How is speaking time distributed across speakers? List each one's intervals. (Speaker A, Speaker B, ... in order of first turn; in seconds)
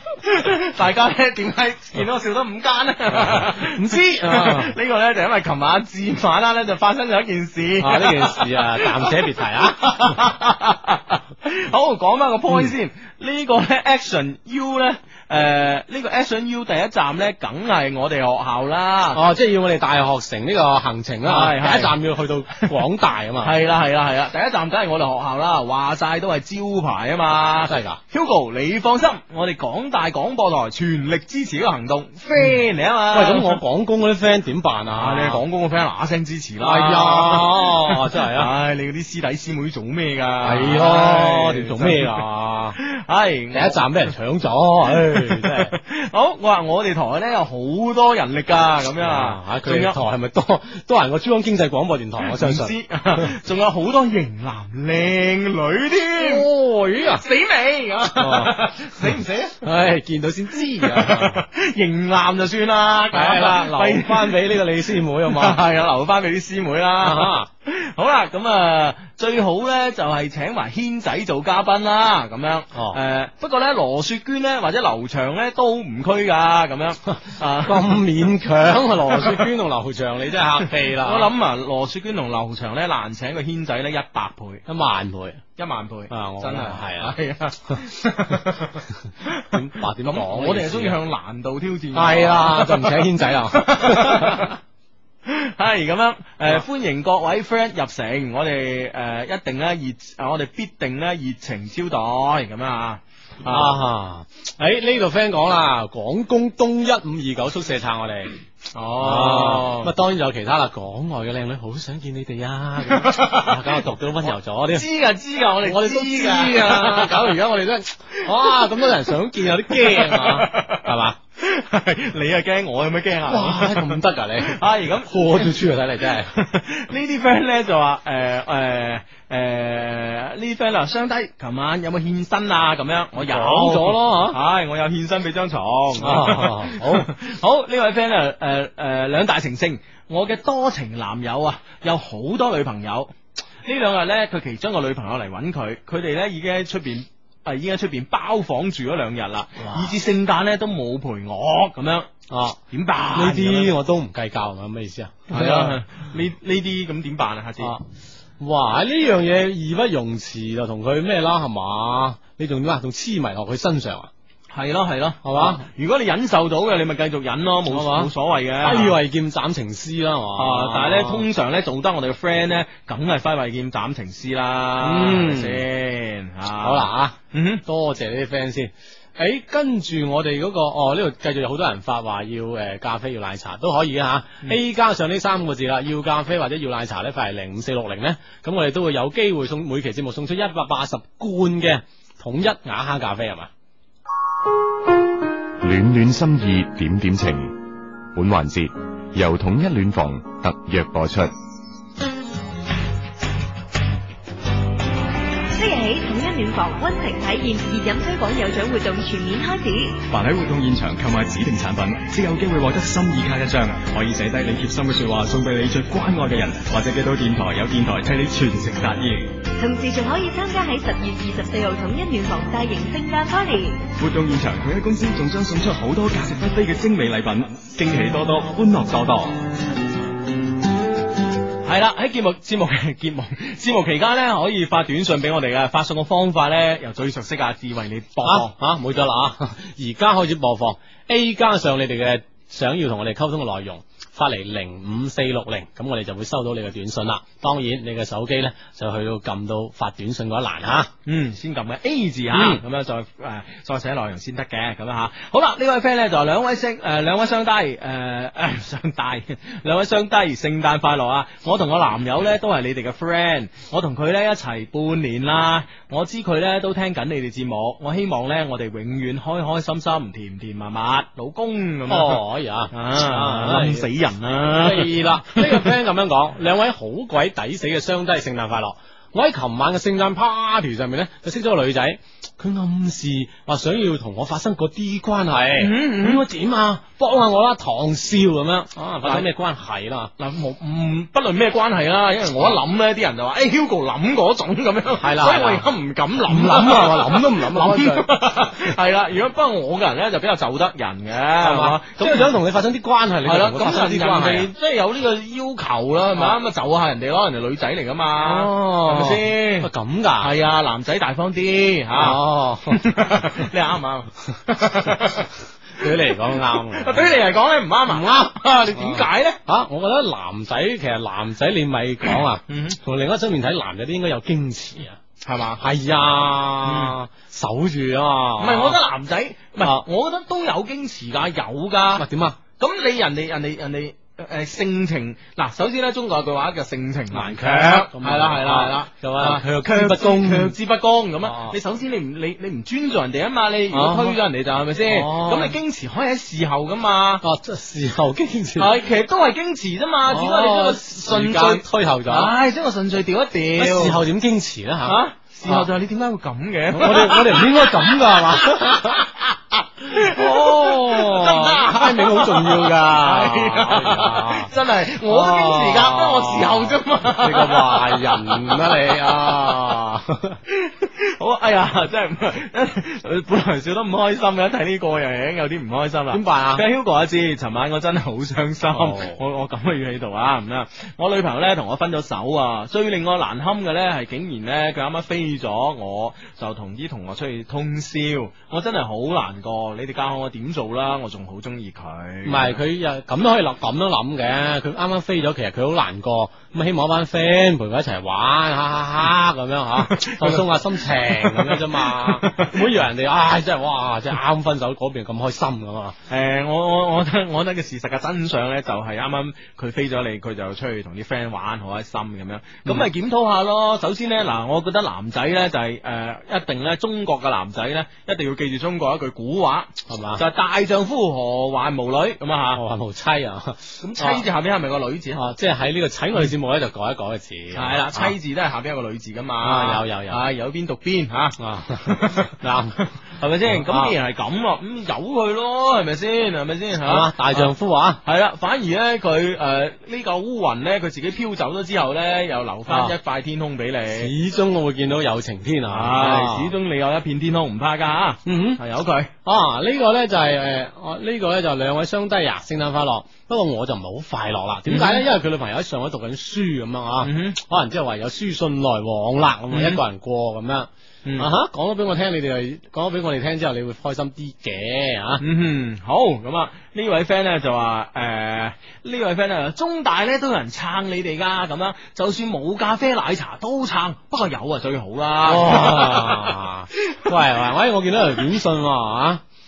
Speaker A: 0.2-19.2, 21.2-21.9, 23.4-33.6, 34.9-42.2, 42.8-43.8, 44.9-50.0, 52.3-59.6, 60.8-64.5, 65.2-78.0, 79.1-79.5, 80.6-84.6, 85.6-94.6, 95.2-103.8, 108.7-109.9, 112.9-113.8, 114.7-119.1, 119.7-125.5, 126.3-143.1, 143.6-152.1, 152.7-153.7, 155.3-157.7, 164.5-169.0, 170.3-177.6, 231.6-238.5, 251.1-275.7, 285.6-286.2, 289.0-289.3, 290.2-302.3, 303.2-315.3, 315.8-319.4, 322.5-322.8, 325.2-325.6, 326.6-327.0, 328.4-332.1, 332.6-347.2, 348.6-354.0, 354.8-369.6, 370.5-392.6, 399.8-400.4, 401.1-402.6, 406.1-422.6, 423.8-425.2, 427.5-437.5, 438.0-444.1, 445.7-449.1, 454.7-455.1, 457.0-457.4, 459.5-459.8, 461.0-461.3, 465.2-477.1
Speaker B: 3.1-4.7, 7.8-10.2, 19.1-23.5, 27.7-28.0, 33.1-35.4, 36.6-38.5, 40.4-42.8, 43.5-45.7, 49.0-53.3, 56.1-57.2, 58.2-61.4, 63.1-65.6, 67.0-67.5, 72.7-73.0, 77.6-81.3, 84.7-85.4, 86.1-87.2, 89.0-91.0, 91.9-94.5, 103.4-108.4, 109.0-114.9, 115.6-121.2, 123.3-126.3, 133.2-134.4, 136.0-137.1, 149.6-149.9, 152.3-152.6, 153.1-155.8, 158.4-164.1, 165.2-165.6, 167.7-171.2, 174.8-175.6, 176.6-193.5, 238.2-250.9, 252.3-252.6, 271.9-273.9, 274.6-290.1, 295.0-295.7, 296.2-298.1, 301.4-304.5, 308.2-310.3, 311.9-313.4, 315.8-317.2, 317.9-325.0, 325.6-328.8, 331.9-332.4, 337.1-340.5, 341.2-341.6, 343.7-344.2, 344.8-345.6, 347.2-348.7, 350.1-352.3, 353.6-355.7, 356.7-359.1, 359.9-364.5, 365.0-370.4, 376.1-376.6, 378.7-379.2, 392.2-406.0, 419.9-420.2, 422.5-424.2, 425.1-428.1, 429.4-430.2, 431.4-432.8, 433.4-433.9, 436.8-438.0, 442.7-442.9, 443.9-446.5, 448.2-448.6, 449.2-465.2, 475.2-479.2
Speaker C: 195.6-197.5, 198.1-201.3
Speaker D: 205.5-210.0, 219.6-223.8
Speaker E: 210.1-219.3, 224.0-229.4